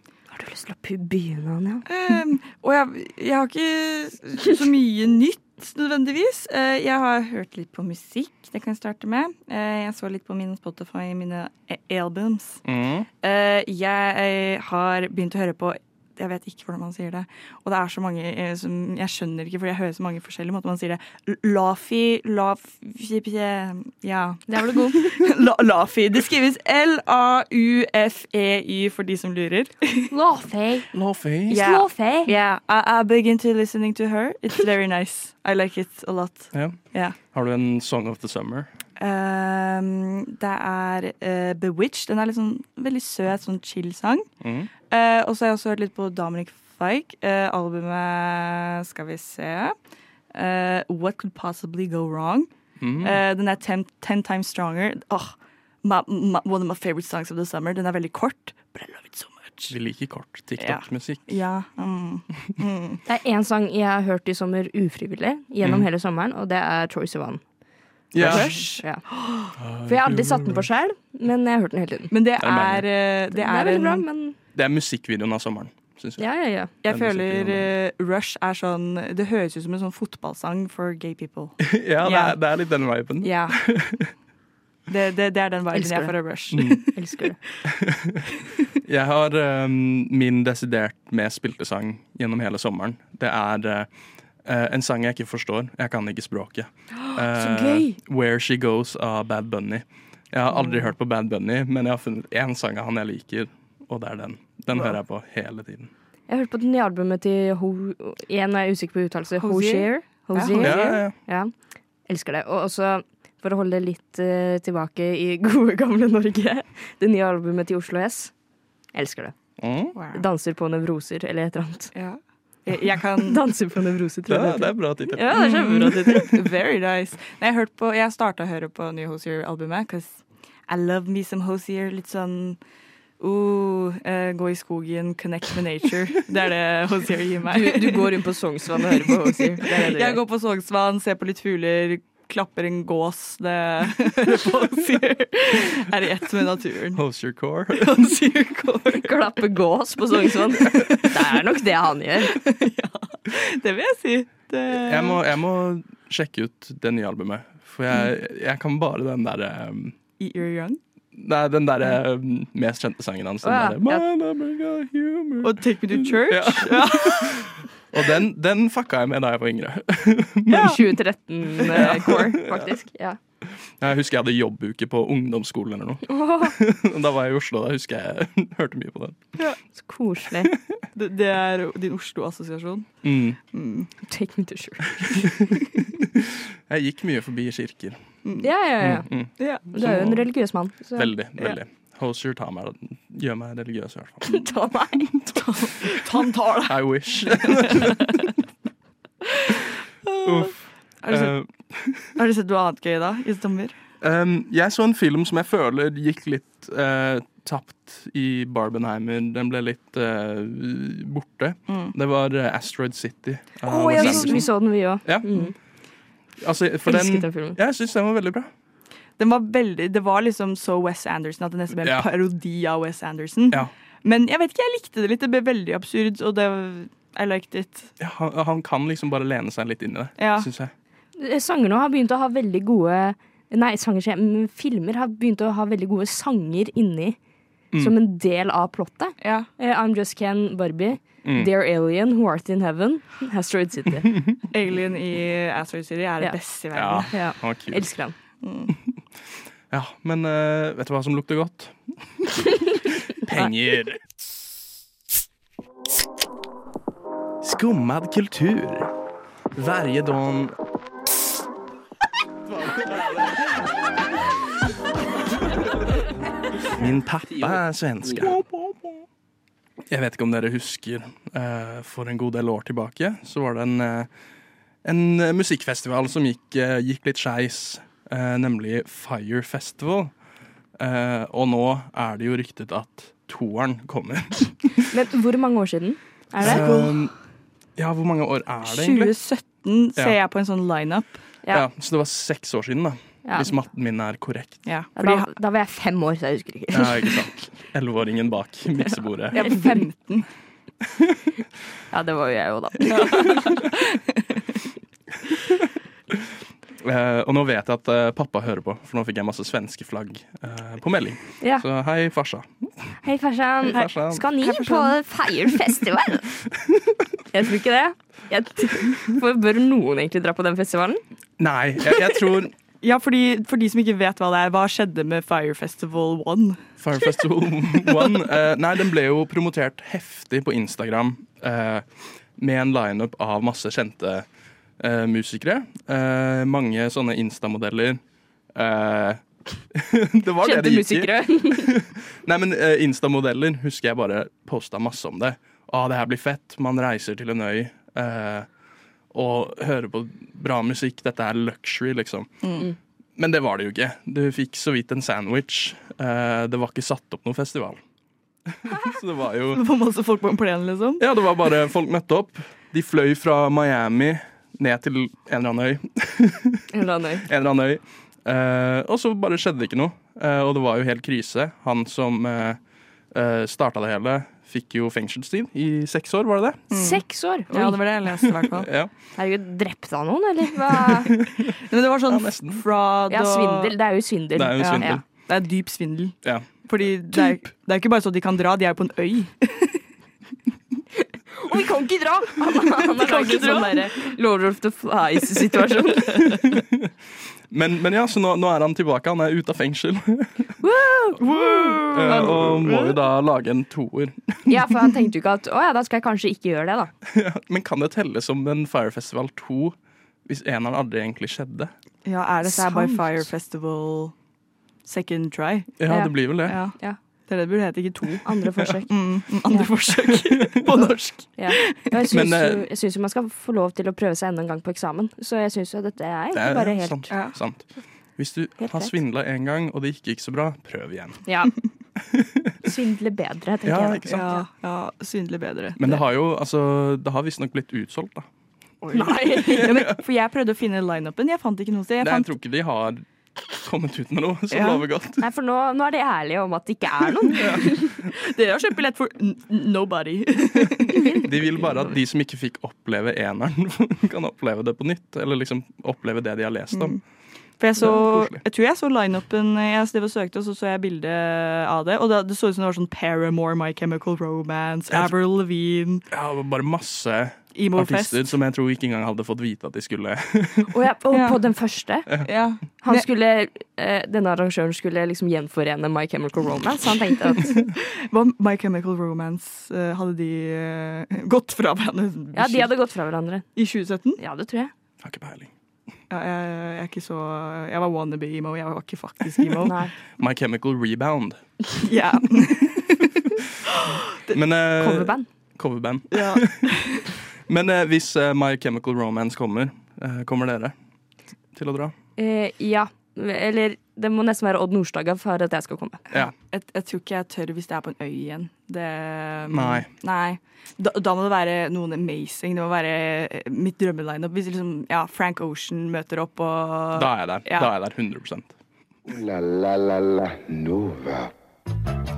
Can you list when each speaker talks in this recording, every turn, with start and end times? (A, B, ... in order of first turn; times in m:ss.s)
0:00.3-0:01.8 A
0:01.9-0:12.6 B
0:12.6-0:13.1 C
0:13.2-0:30.1 B
0:24.5-0:25.1 A
0:30.1-0:30.9 A
0:30.9-0:31.6 C
0:31.5-0:32.3 A
0:31.5-0:37.2 B
0:36.5-0:38.7 C
0:39.0-0:44.2 B
0:44.4-0:44.7 C
0:44.9-0:49.7 B
0:50.3-0:59.7 B
0:52.8-0:53.2 C
0:59.7-1:01.4 C
1:00.6-1:03.0 B
1:03.0-1:07.4 A
1:05.6-1:05.9 C
1:08.1-1:08.5 C
1:08.2-1:08.8 B
1:08.2-1:09.0 A
1:09.6-1:10.6 C
1:09.8-1:12.1 A
1:12.1-1:14.0 B
1:12.4-1:12.9 C
1:13.3-1:14.4 A
1:14.5-1:16.2 C
1:16.2-1:16.7 A
1:16.8-1:22.4 B
1:16.8-1:17.7 C
1:21.6-1:24.1 C
1:23.2-1:23.6 B
1:24.9-1:27.0 B
1:25.7-1:26.1 A
1:26.5-1:26.8 C
1:26.9-1:27.4 A
1:27.6-1:28.3 C
1:28.8-1:33.9 C
1:34.4-1:45.9 C
1:37.0-1:38.0 A
1:46.3-1:51.5 A
1:49.4-1:50.8 B
1:50.6-1:51.1 C
1:52.1-1:58.3 A
1:58.9-1:59.3 A
1:59.6-2:00.0 C
2:00.0-2:00.2 B
2:00.1-2:01.9 A
2:01.9-2:03.5 B
2:03.2-2:06.3 A
2:04.3-2:06.4 C
2:05.3-2:12.6 B
2:13.2-2:18.1 B
2:17.5-2:20.2 A
2:18.7-2:27.0 B
2:26.9-2:28.1 C
2:27.7-2:29.4 B
2:28.9-2:32.4 A
2:30.2-2:31.4 B
2:32.2-2:35.2 B
2:34.7-2:40.0 C
2:40.2-2:40.8 B
2:41.1-2:51.0 C
2:43.4-2:44.0 A
2:45.4-2:47.5 B
2:50.5-2:53.2 A
2:51.6-2:52.7 C
2:53.8-2:59.2 C
2:56.1-2:56.5 A
2:59.7-3:00.5 A
3:00.4-3:00.7 C
3:00.9-3:02.9 B
3:03.0-3:03.4 C
3:03.5-3:03.9 B
3:04.1-3:05.3 A
3:05.0-3:08.0 C
3:08.2-3:08.5 B
3:08.4-3:09.1 A
3:08.8-3:10.2 C
3:09.4-3:09.7 B
3:09.7-3:11.6 A
3:10.9-3:16.0 C
3:14.2-3:15.1 A
3:15.3-3:18.2 B
3:16.6-3:18.3 C
3:19.3-3:21.3 B
3:20.2-3:20.6 C
3:21.1-3:22.1 C
3:22.2-3:23.7 B
3:24.0-3:34.5 C
3:31.7-3:31.9 B
3:33.7-3:34.5 B
3:33.7-3:35.5 A
3:35.0-3:35.5 C
3:36.4-3:38.5 C
3:36.9-3:37.6 A
3:39.2-3:47.9 B
3:48.0-3:50.7 C
3:50.2-3:50.5 B
3:51.2-3:57.2 A
3:57.8-4:04.1 A
3:59.2-3:59.5 B
4:01.2-4:01.5 C
4:04.5-4:07.1 B
4:06.7-4:07.9 C
4:07.1-4:08.1 A
4:08.4-4:08.7 B
4:09.7-4:14.0 C
4:17.4-4:18.9 C
4:19.5-4:20.6 C
4:26.7-4:28.4 C
4:29.8-4:34.1 C
4:34.8-4:40.1 C
4:40.8-4:44.9 C
4:44.9-4:46.7 A
4:46.4-4:47.1 B
4:46.4-4:47.1 C
4:47.8-4:49.1 C
4:48.6-4:51.2 B
4:51.5-4:54.6 C
4:53.2-4:53.5 A
4:54.6-4:55.3 B
4:55.0-4:57.2 A
4:56.7-4:59.4 C
4:59.3-5:00.3 B
5:01.9-5:03.6 A
5:02.8-5:04.4 B
5:06.8-5:12.7 C
5:13.0-5:16.3 A
5:13.6-5:14.2 C
5:14.4-5:15.0 B
5:17.3-5:21.0 A
5:21.4-5:22.5 C
5:22.8-5:26.6 B
5:26.8-5:31.8 C
5:32.4-5:34.2 C
5:34.8-5:38.0 C
5:38.5-5:39.2 C
5:39.7-5:48.5 C
5:40.4-5:41.8 A
5:49.1-5:52.5 C
5:52.4-5:52.7 B
5:53.2-5:57.8 C
5:58.5-5:59.6 C
5:59.5-6:01.0 B
6:01.0-6:06.7 C
6:06.7-6:07.2 A
6:07.2-6:12.6 C
6:13.1-6:16.7 C
6:16.7-6:18.7 B
6:16.7-6:17.8 A
6:18.2-6:18.9 C
6:19.2-6:21.1 A
6:20.8-6:21.5 C
6:21.6-6:23.7 B
6:22.1-6:22.6 C
6:23.1-6:25.0 A
6:24.3-6:25.0 C
6:24.8-6:29.8 B
6:31.3-6:36.4 A
6:32.8-6:34.1 B
6:36.2-6:36.9 C
6:37.5-6:40.6 C
6:40.6-6:42.3 A
6:41.2-6:43.0 B
6:41.9-6:44.8 C
6:44.5-6:46.9 A
6:47.0-6:51.7 C
6:52.0-6:54.1 B
6:52.4-6:53.2 A
6:54.8-6:55.8 B
6:55.8-6:56.6 C
6:55.9-6:56.1 A
6:56.4-7:01.9 B
6:58.2-6:58.9 A
7:00.1-7:00.6 C
7:01.4-7:07.1 A
7:02.1-7:02.7 C
7:06.3-7:11.2 C
7:07.1-7:07.4 B
7:08.6-7:08.9 A
7:11.3-7:11.5 A
7:12.1-7:12.5 C
7:12.6-7:14.4 A
7:13.6-7:14.3 C
7:14.1-7:16.0 B
7:15.8-7:18.3 C
7:18.8-7:22.3 B
7:18.9-7:19.7 A
7:19.5-7:19.9 C
7:22.0-7:25.2 C
7:24.5-7:24.8 B
7:25.2-7:27.9 A
7:27.3-7:28.1 C
7:27.4-7:31.3 B
7:31.2-7:37.0 C
7:36.7-7:37.0 B
7:37.6-7:46.0 B
7:37.8-7:38.4 C
7:46.1-7:50.8 C
7:47.5-7:48.3 B
7:50.7-7:52.3 A
7:51.1-7:51.4 B
7:52.2-7:53.0 B
7:52.8-7:57.6 A
7:57.5-8:02.7 B
8:02.3-8:03.4 A
8:03.6-8:04.2 B
8:04.2-8:04.7 A
8:05.0-8:05.5 C
8:06.1-8:09.7 B
8:09.6-8:09.9 A
8:10.2-8:11.4 C
8:11.8-8:14.4 B
8:12.4-8:12.8 C
8:14.3-8:16.7 C
8:14.8-8:15.2 A
8:16.1-8:17.1 B
8:17.5-8:20.7 C
8:21.5-8:21.9 C
8:22.2-8:26.0 A
8:26.1-8:37.7 B
8:29.5-8:29.9 C
8:36.9-8:38.5 C
8:39.1-8:41.3 D